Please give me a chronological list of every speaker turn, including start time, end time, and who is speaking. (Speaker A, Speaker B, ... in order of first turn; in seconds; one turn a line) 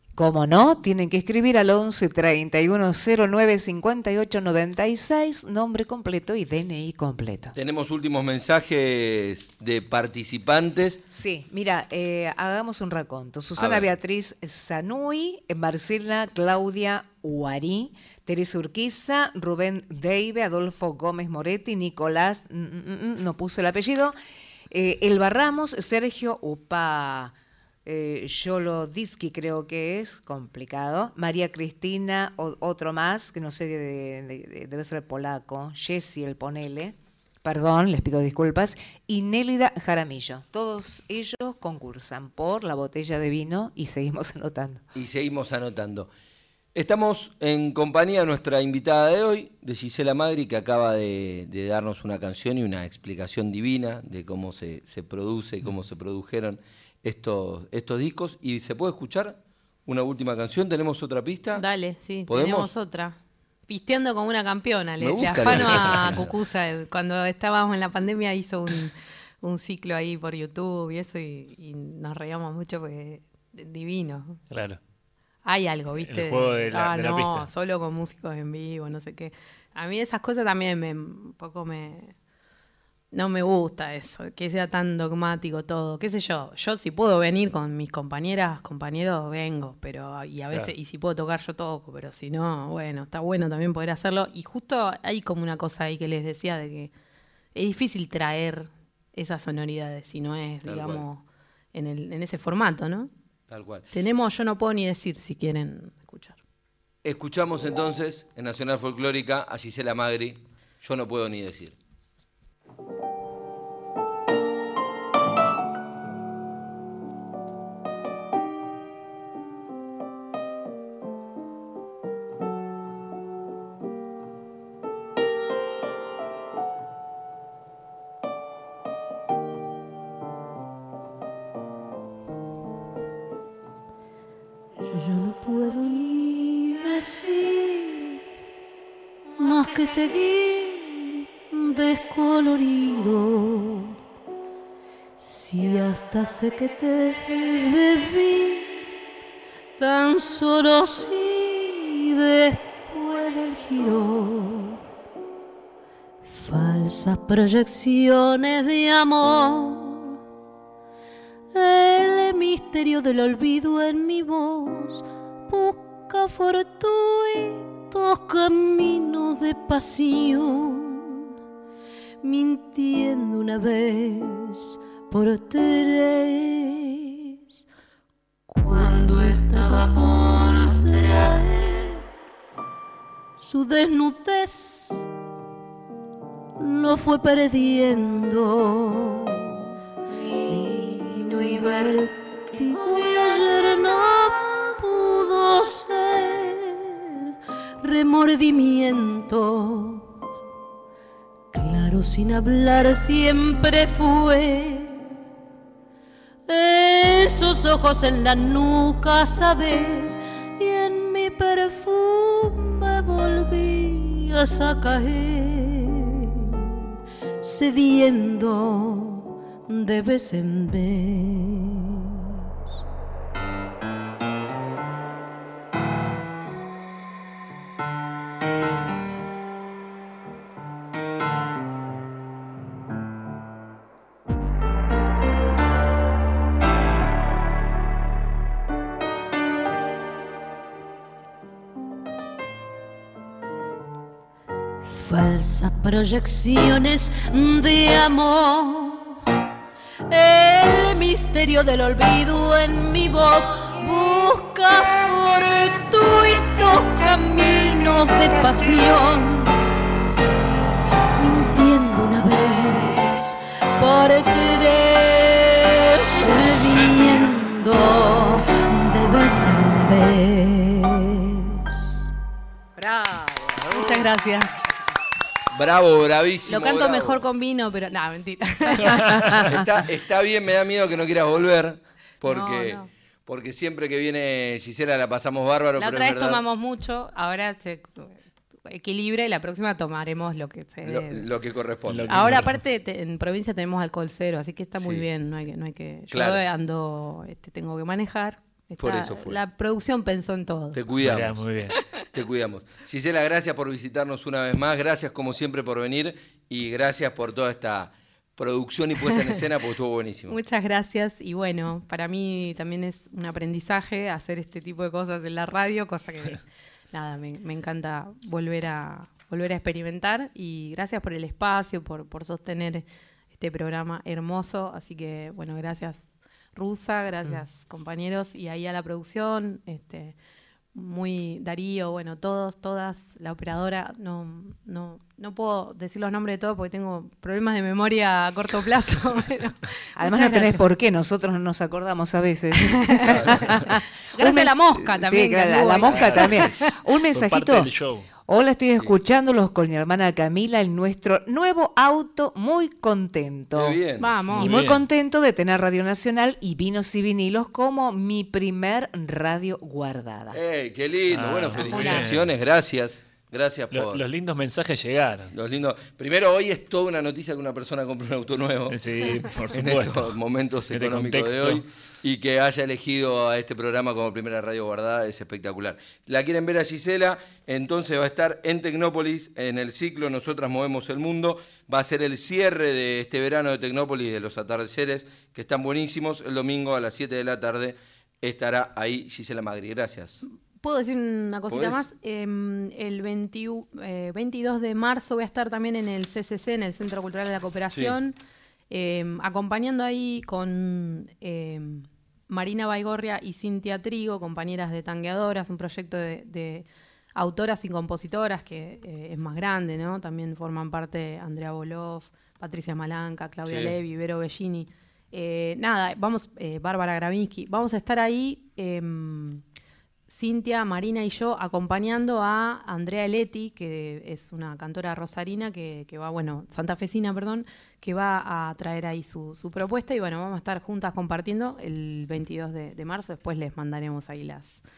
Speaker A: 0.1-7.5
Speaker B: 7.5-11.0
Speaker A: 11.1-24.1
Speaker B: 13.6-13.9
Speaker A: 24.7-27.3
Speaker A: 27.8-44.8
Speaker B: 44.9-46.1
Speaker B: 46.7-61.6
Speaker C: 61.5-74.4
Speaker B: 62.3-62.7
Speaker B: 65.0-66.3
Speaker D: 65.2-66.3
Speaker D: 74.5-74.8
Speaker C: 75.4-82.1
Speaker D: 76.0-77.5
Speaker C: 83.1-96.9
Speaker C: 97.5-103.1
Speaker B: 100.6-101.0
Speaker B: 103.5-103.9
Speaker C: 103.9-106.4
Speaker B: 107.0-111.8
Speaker E: 134.8-138.2
Speaker E: 139.4-144.0
Speaker E: 145.2-148.8
Speaker E: 149.8-154.8
Speaker E: 156.2-160.2
Speaker E: 161.5-171.3
Speaker E: 172.2-177.4
Speaker E: 178.5-182.0
Speaker E: 183.4-185.1
Speaker E: 186.6-189.7
Speaker E: 190.4-200.2
Speaker E: 201.5-205.1
Speaker E: 206.5-216.8
Speaker E: 217.4-222.2
Speaker E: 244.8-249.2
Speaker E: 250.1-259.6
Speaker E: 261.1-271.9
Speaker E: 272.8-273.4
Speaker C: 273.6-274.5
Speaker B: 275.5-277.2
Speaker C: 276.5-279.5
Speaker B: 279.3-286.4
Speaker C: 282.2-282.9
Speaker C: 285.8-288.1
Speaker C: 288.7-291.3
Speaker B: 290.8-292.4
Speaker D: 291.9-292.6
Speaker C: 292.1-300.8
Speaker B: 294.8-295.1
Speaker B: 296.1-296.4
Speaker B: 298.8-299.4
Speaker B: 300.7-301.5
Speaker D: 301.0-301.8
Speaker B: 302.1-310.4
Speaker C: 310.3-330.1
Speaker C: 330.7-340.6
Speaker A: 340.0-347.7
Speaker C: 342.8-343.2
Speaker B: 343.1-343.4
Speaker C: 344.1-346.5
Speaker D: 345.7-348.1
Speaker A: 348.2-353.8
Speaker B: 353.5-354.3
Speaker C: 354.0-354.6
Speaker D: 354.3-354.8
Speaker A: 354.4-360.4
Speaker B: 360.3-364.0
Speaker D: 361.1-362.2
Speaker C: 361.6-362.1
Speaker D: 363.7-365.3
Speaker B: 365.3-368.8
Speaker D: 368.7-370.2
Speaker B: 369.5-390.2
Speaker D: 370.7-371.6
Speaker C: 390.6-398.1
Speaker B: 391.5-391.8
Speaker B: 397.7-398.0
Speaker C: 398.7-419.4
Speaker B: 413.4-413.8
Speaker C: 420.1-434.6